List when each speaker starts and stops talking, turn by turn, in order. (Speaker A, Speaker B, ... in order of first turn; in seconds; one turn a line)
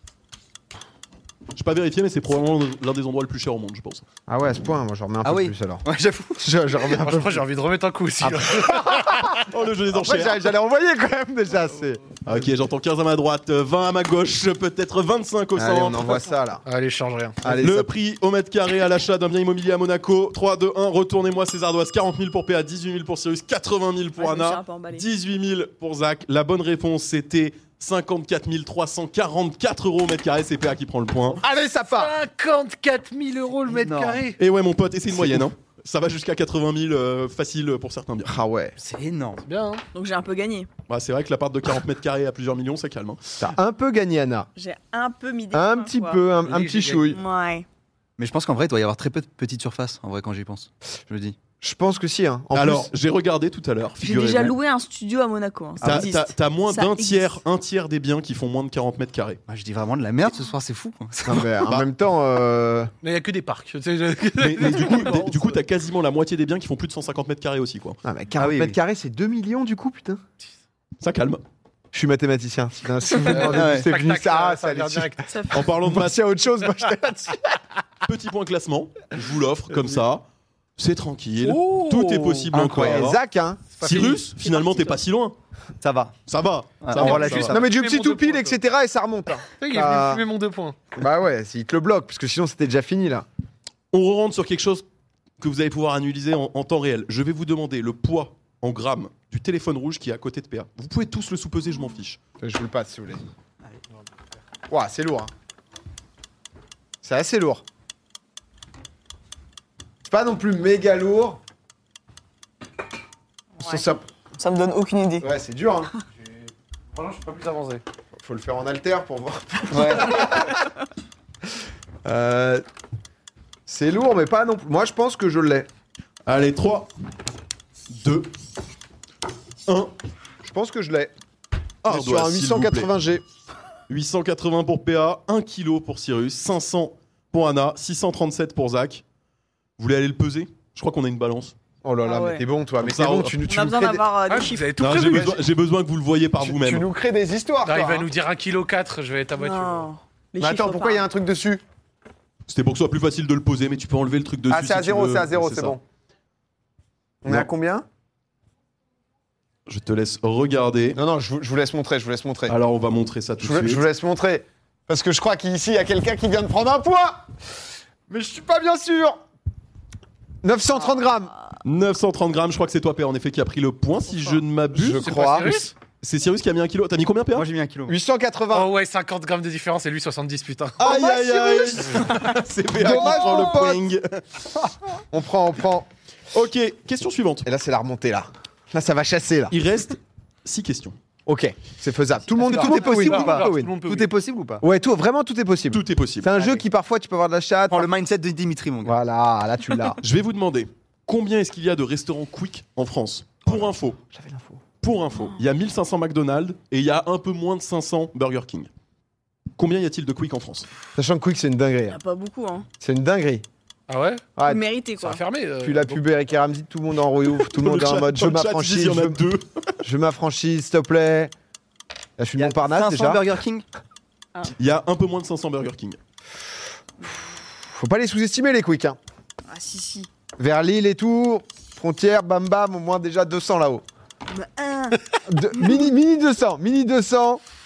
Speaker A: 1.5-4.0
Speaker B: 4.3-5.8
Speaker C: 5.2-6.4
Speaker B: 6.4-7.4
Speaker D: 6.9-9.4
Speaker B: 8.2-9.3
Speaker A: 9.3-10.4
Speaker B: 9.9-12.2
Speaker A: 12.2-16.2
Speaker B: 15.6-16.6
Speaker D: 16.6-17.4
Speaker B: 17.4-17.9
Speaker A: 17.5-31.4
Speaker E: 24.2-25.0
Speaker B: 31.4-32.1
Speaker D: 31.9-34.4
Speaker C: 33.7-34.2
Speaker A: 34.4-38.3
Speaker B: 35.1-35.5
Speaker B: 38.2-38.7
Speaker C: 38.8-39.4
Speaker D: 39.4-39.8
Speaker E: 39.9-40.7
Speaker A: 40.9-43.5
Speaker B: 43.4-44.5
Speaker E: 44.5-46.3
Speaker B: 45.5-47.2
Speaker D: 46.4-47.1
Speaker E: 47.1-47.6
Speaker C: 48.2-51.4
Speaker B: 51.6-52.9
Speaker A: 52.5-54.5
Speaker E: 54.0-57.4
Speaker A: 55.8-59.4
Speaker C: 59.5-61.6
Speaker B: 61.2-62.9
Speaker D: 63.0-65.6
Speaker A: 64.4-68.0
Speaker B: 68.0-70.2
Speaker C: 68.4-68.8
Speaker A: 71.0-71.4
Speaker B: 71.9-77.6
Speaker D: 73.2-75.3
Speaker C: 73.5-73.9
Speaker E: 75.3-75.7
Speaker A: 75.5-76.2
Speaker A: 78.0-80.2
Speaker A: 80.8-83.2
Speaker D: 81.4-82.5
Speaker C: 82.5-83.1
Speaker B: 82.7-83.7
Speaker D: 83.8-84.3
Speaker A: 83.8-85.3
Speaker E: 84.6-84.9
Speaker C: 85.8-86.1
Speaker A: 86.3-87.6
Speaker C: 86.8-87.7
Speaker D: 87.0-88.5
Speaker B: 87.1-90.2
Speaker D: 89.6-90.8
Speaker B: 91.0-93.2
Speaker A: 93.9-94.8
Speaker A: 95.4-102.2
Speaker B: 102.4-103.2
Speaker B: 104.7-105.3
Speaker B: 107.0-107.6
Speaker B: 110.0-111.4
Speaker E: 113.6-115.3
Speaker B: 113.6-114.0
Speaker B: 115.2-115.9
Speaker D: 116.9-117.8
Speaker B: 118.2-120.7
Speaker E: 119.7-120.1
Speaker B: 122.0-122.6
Speaker B: 123.7-125.7
Speaker A: 126.2-126.9
Speaker A: 127.9-128.3
Speaker A: 129.7-129.9
Speaker B: 130.4-131.1
Speaker A: 131.8-132.9
Speaker B: 131.8-133.2
Speaker A: 133.9-139.0
Speaker A: 139.8-141.5
Speaker B: 141.8-144.1
Speaker E: 142.0-142.4
Speaker A: 142.8-143.4
Speaker E: 143.5-145.2
Speaker D: 144.3-145.4
Speaker A: 144.8-146.9
Speaker B: 145.1-145.4
Speaker B: 146.4-148.1
Speaker D: 147.6-149.9
Speaker E: 149.4-151.0
Speaker B: 150.4-151.6
Speaker A: 152.5-155.8
Speaker B: 154.5-155.8
Speaker B: 157.2-157.8
Speaker A: 159.7-161.0
Speaker B: 160.9-162.6
Speaker A: 162.5-163.8
Speaker B: 163.4-167.3
Speaker B: 168.1-169.2
Speaker B: 170.4-171.3
Speaker A: 171.6-177.4
Speaker B: 174.7-175.7
Speaker D: 174.9-175.7
Speaker C: 177.3-178.0
Speaker B: 177.9-178.7
Speaker D: 178.5-181.0
Speaker A: 180.8-184.4
Speaker E: 180.9-181.9
Speaker B: 182.7-183.8
Speaker E: 182.9-183.7
Speaker B: 185.0-185.9
Speaker A: 186.3-187.5
Speaker B: 187.4-189.5
Speaker A: 189.5-190.9
Speaker B: 191.2-193.7
Speaker C: 192.4-194.6
Speaker D: 192.5-194.1
Speaker B: 194.6-197.9
Speaker A: 195.7-196.3
Speaker C: 197.7-198.9
Speaker B: 198.8-200.0
Speaker A: 200.0-204.0
Speaker B: 203.4-204.6
Speaker A: 204.8-208.7
Speaker A: 209.6-210.7
Speaker B: 210.9-212.0
Speaker E: 211.9-212.7
Speaker B: 212.8-213.4
Speaker D: 213.9-214.3
Speaker B: 214.3-214.6
Speaker E: 214.4-215.2
Speaker D: 215.0-216.0
Speaker B: 215.6-219.2
Speaker A: 217.4-219.7
Speaker B: 219.8-221.3
Speaker B: 222.2-223.2
Speaker C: 222.4-223.6
Speaker A: 224.6-226.0
Speaker B: 227.6-229.0
Speaker E: 229.5-230.1
Speaker B: 230.4-233.8
Speaker E: 234.3-235.8
Speaker B: 235.2-237.4